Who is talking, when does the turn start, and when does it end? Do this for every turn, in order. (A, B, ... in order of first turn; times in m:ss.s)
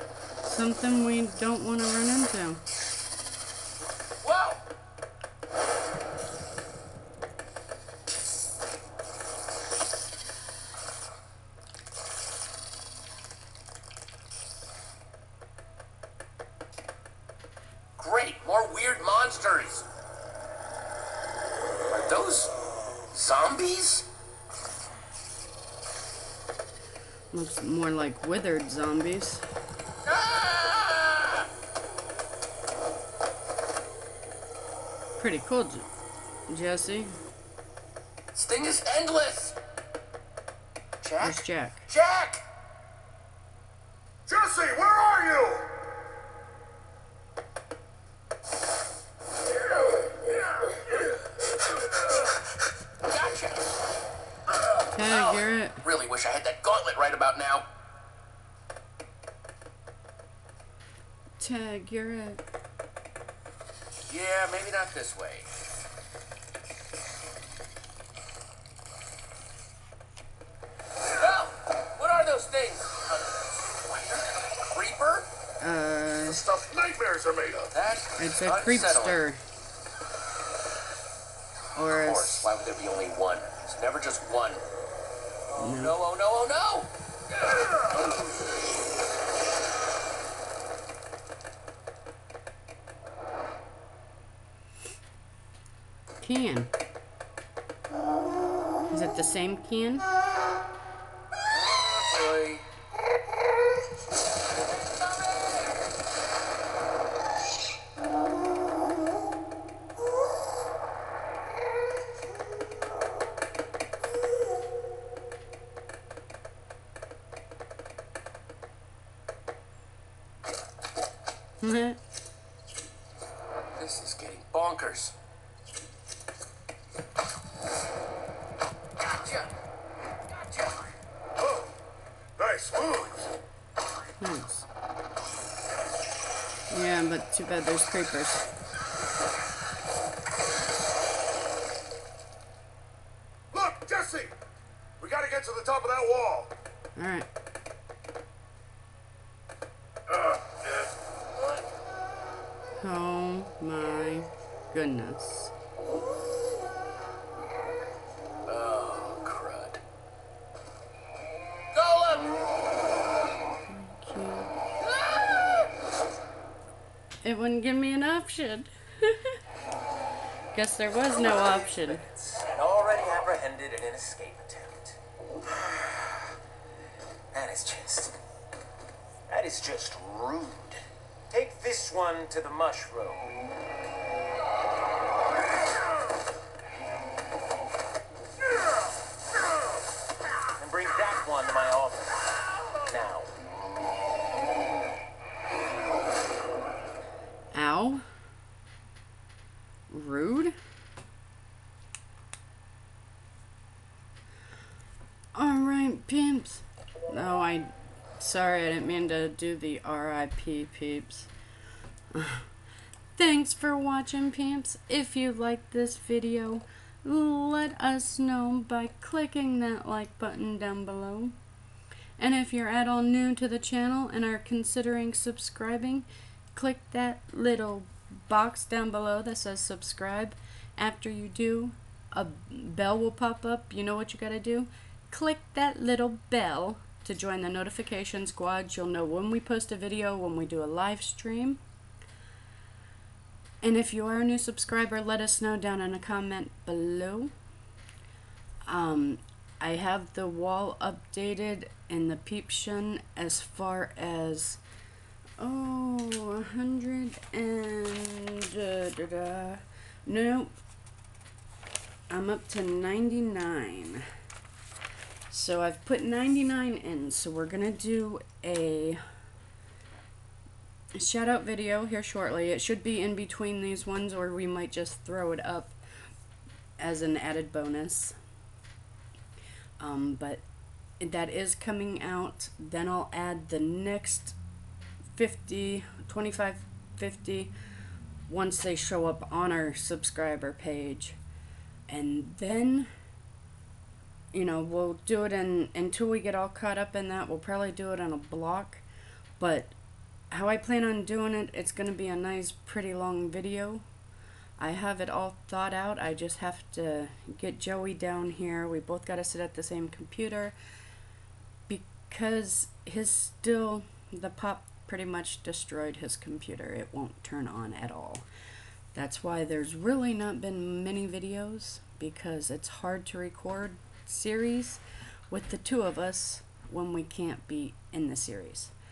0:00.4-0:02.6 A
0:04.2-0:04.6 B
0:18.0-0:19.9 B
0:21.9-0:22.5 B
0:23.1-0:24.1 B
0:27.3-0:29.5 A
0:30.1-0:31.5 B
0:35.2-0:35.9 A
0:36.5-0:37.2 A
0:38.3-0:39.6 B
0:41.0-0:42.4 B
0:41.2-0:41.9 A
0:44.3-0:45.7 C
0:53.0-0:53.6 B
0:54.9-0:55.8 A
0:55.0-0:57.7 B
1:01.4-1:02.4 A
1:04.1-1:05.5 B
1:11.1-1:15.3 B
1:15.6-1:16.5 A
1:16.2-1:17.7 C
1:17.7-1:19.2 B
1:18.2-1:19.4 A
1:21.8-1:22.5 A
1:21.9-1:24.6 B
1:25.5-1:26.9 B
1:25.6-1:26.0 A
1:36.2-1:36.7 A
1:38.9-1:40.1 A
1:41.5-1:42.6 B
2:01.6-2:02.0 A
2:03.7-2:05.1 B
2:09.0-2:09.5 B
2:10.4-2:10.9 B
2:11.4-2:11.7 C
2:12.4-2:13.3 C
2:14.2-2:14.7 A
2:16.7-2:18.5 A
2:23.5-2:24.3 C
2:25.0-2:26.5 C
2:27.0-2:27.3 A
2:32.8-2:35.5 A
2:38.5-2:39.8 B
2:41.7-2:42.4 B
2:43.7-2:44.5 A
2:47.2-2:49.4 A
2:50.5-2:52.0 A
2:51.2-2:56.3 D
2:57.3-2:58.2 D
2:59.3-3:00.8 D
3:01.3-3:03.3 D
3:10.6-3:12.2 D
3:12.8-3:13.3 D
3:17.5-3:18.1 A
3:19.9-3:20.5 A
3:25.3-3:31.3 A
3:32.1-3:32.5 A
3:33.1-3:41.4 A
3:42.2-4:01.6 A
4:03.6-4:07.3 A
4:08.6-4:14.6 A
4:15.4-4:20.5 A
4:22.1-4:24.0 A
4:25.3-4:29.0 A
4:30.9-4:35.8 A
4:36.8-4:38.2 A
4:39.8-4:40.4 A
4:41.0-4:44.4 A
4:45.1-4:47.5 A
4:48.3-4:51.2 A
4:51.9-4:52.9 A
4:54.3-4:58.8 A
4:59.4-4:59.8 A
5:00.3-5:03.8 A
5:04.6-5:10.5 A
5:11.7-5:18.2 A
5:18.9-5:28.7 A